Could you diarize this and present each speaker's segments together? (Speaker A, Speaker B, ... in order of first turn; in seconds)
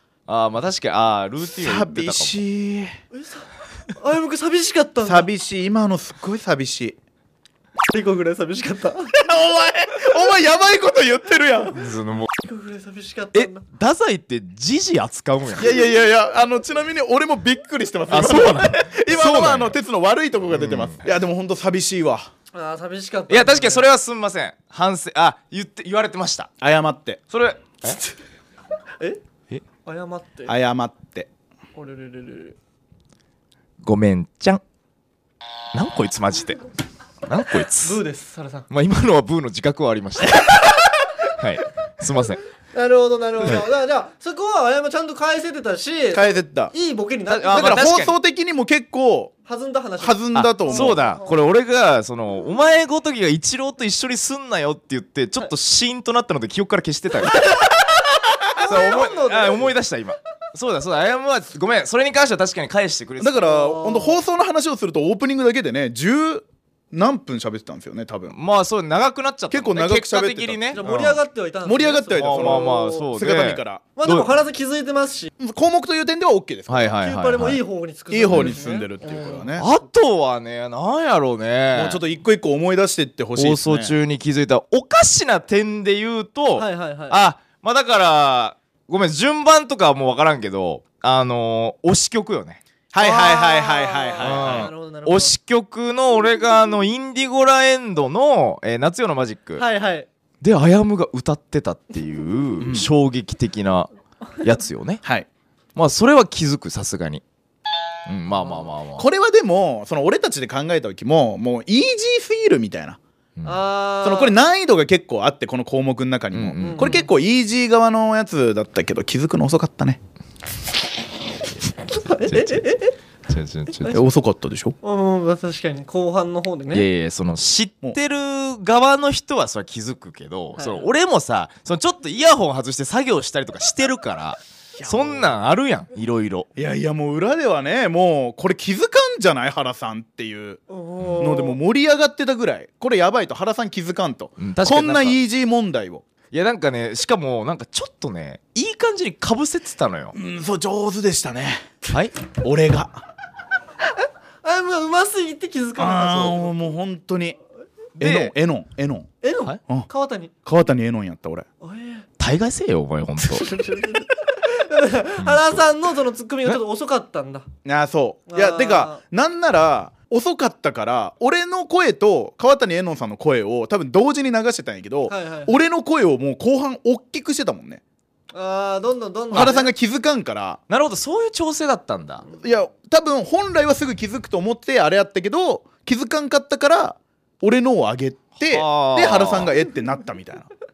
Speaker A: 0.3-2.4, 11.7-12.3, 13.3-15.8, 18.1-19.8, 20.5-21.1, 23.3-26.5, 27.3-28.0, 33.8-34.6, 35.7-36.6, 37.3-38.0, 38.7-42.4, 47.3-48.2, 50.3-57.6, 58.6-63.4, 68.3-71.2, 72.2-74.3, 76.7-77.6, 79.6-82.0, 83.4-92.6, 94.2-99.6, 100.4-105.0, 105.8-107.2, 108.1-109.1, 113.4-113.6, 116.3-117.0, 122.2-122.7, 123.3-124.0, 126.7-136.5, 141.0-141.3, 144.4-145.2, 146.3-150.2, 158.0-158.3, 162.2-163.5, 165.2-165.6, 180.7-182.2, 188.4-189.5
Speaker B: 1.6-3.0, 5.0-7.0, 9.2-11.8, 15.6-22.3, 26.6-27.2, 30.5-31.3, 46.1-46.7, 47.5-49.3, 50.0-51.0, 63.2-68.4, 69.5-70.8, 71.7-73.8, 75.4-76.9, 78.1-79.7, 81.7-83.9, 92.9-94.7, 102.6-102.9, 109.0-113.0, 114.0-120.0, 123.9-124.8, 134.8-135.3, 136.6-140.6, 141.2-146.0, 150.2-151.7, 152.3-153.0, 155.8-157.4, 158.0-159.1, 160.4-161.5, 167.7-177.8, 179.3-180.6, 182.4-190.5
Speaker C: 3.1-5.3, 7.9-9.2, 12.4-13.6, 22.5-23.8, 29.9-30.5, 31.8-32.6, 37.8-38.7, 42.7-47.8, 49.5-51.3, 58.5-59.7, 63.4-64.2, 70.7-73.1, 74.0-75.3, 77.0-79.5, 86.6-87.2, 93.0-95.3, 99.6-100.1, 113.5-114.3, 116.6-117.1, 121.9-122.9, 124.8-126.9, 130.6-130.9, 140.7-141.6, 154.4-156.6, 159.2-160.3, 161.6-162.1, 163.3-167.5, 168.3-169.0, 175.1-175.6, 178.3-179.7